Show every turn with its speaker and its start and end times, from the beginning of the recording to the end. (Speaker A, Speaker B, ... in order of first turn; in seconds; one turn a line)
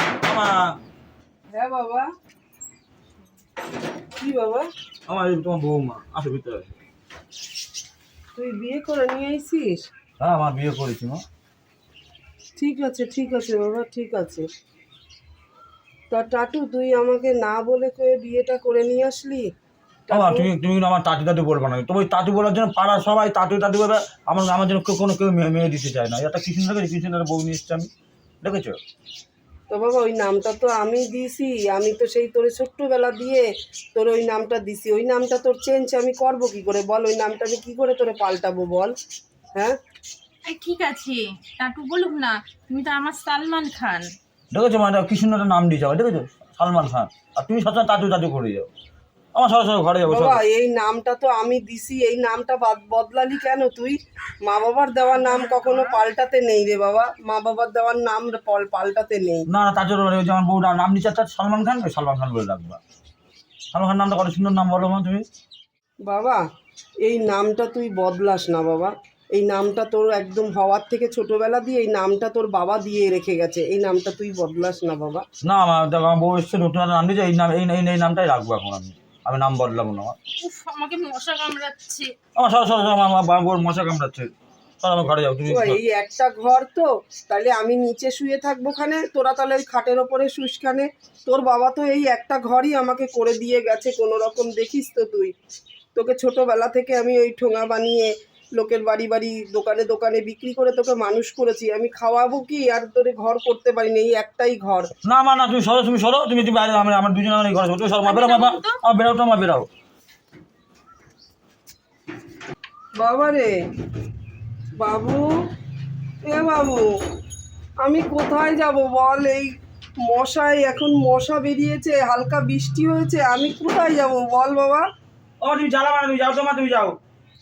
Speaker A: 0.2-0.8
Speaker B: 1.5-2.1
Speaker B: 4.2-4.7
Speaker A: 5.1-6.7
Speaker B: 8.3-9.8
Speaker A: 10.2-11.2
Speaker B: 12.6-14.5
Speaker B: 16.1-19.5
Speaker B: 20.1-20.5
Speaker A: 20.1-27.9
Speaker A: 28.4-28.8
Speaker B: 29.7-38.9
Speaker C: 40.5-44.1
Speaker A: 44.5-48.7
Speaker A: 49.4-50.4
Speaker B: 50.1-59.4
Speaker C: 55.1-56.0
Speaker A: 59.5-62.8
Speaker A: 63.7-65.2
Speaker B: 66.0-66.4
Speaker B: 67.0-75.3
Speaker A: 75.4-80.2
Speaker C: 80.4-82.1
Speaker A: 82.4-85.8
Speaker B: 85.5-95.3
Speaker B: 96.0-104.9
Speaker A: 105.0-109.7
Speaker C: 108.0-108.7
Speaker B: 113.0-113.5
Speaker B: 114.8-115.2
Speaker B: 116.3-116.9
Speaker B: 117.8-124.9
Speaker A: 125.4-127.0